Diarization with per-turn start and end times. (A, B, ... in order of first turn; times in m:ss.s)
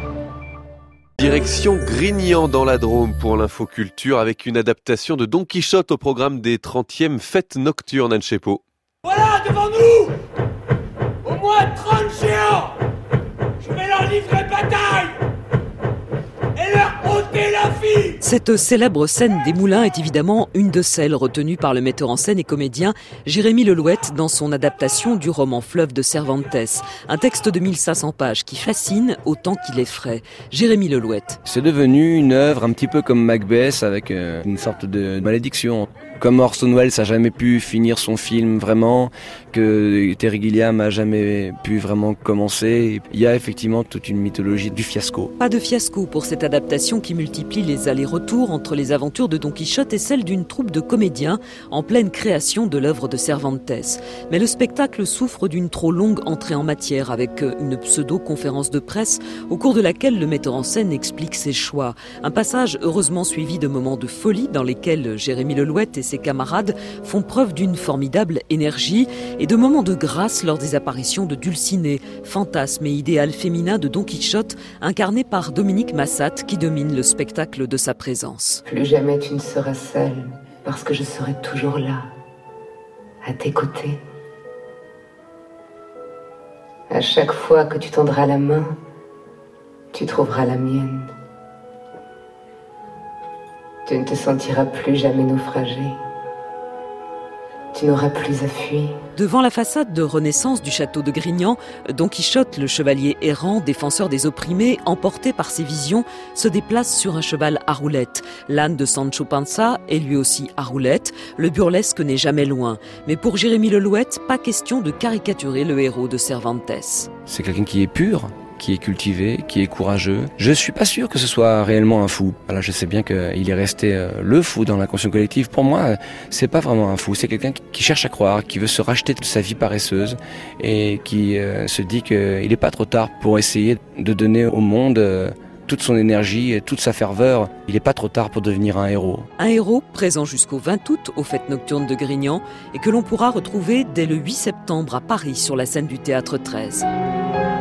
0:01.2-0:08.6 A
0:09.0-0:10.2 B
0:11.2-0:12.8 B
0:13.6-0:15.2 B
0:16.6-0:18.1 B
0:18.2-0:31.4 C
0:31.4-0:45.3 D
0:45.4-1:18.6 C
1:18.7-1:22.0 E
1:23.2-1:24.0 E
1:26.9-1:28.7 E
1:29.9-1:31.1 E
1:33.9-1:36.0 E
1:37.7-1:38.9 E
1:39.2-1:57.1 C
1:57.3-2:19.3 D
2:19.4-2:26.8 C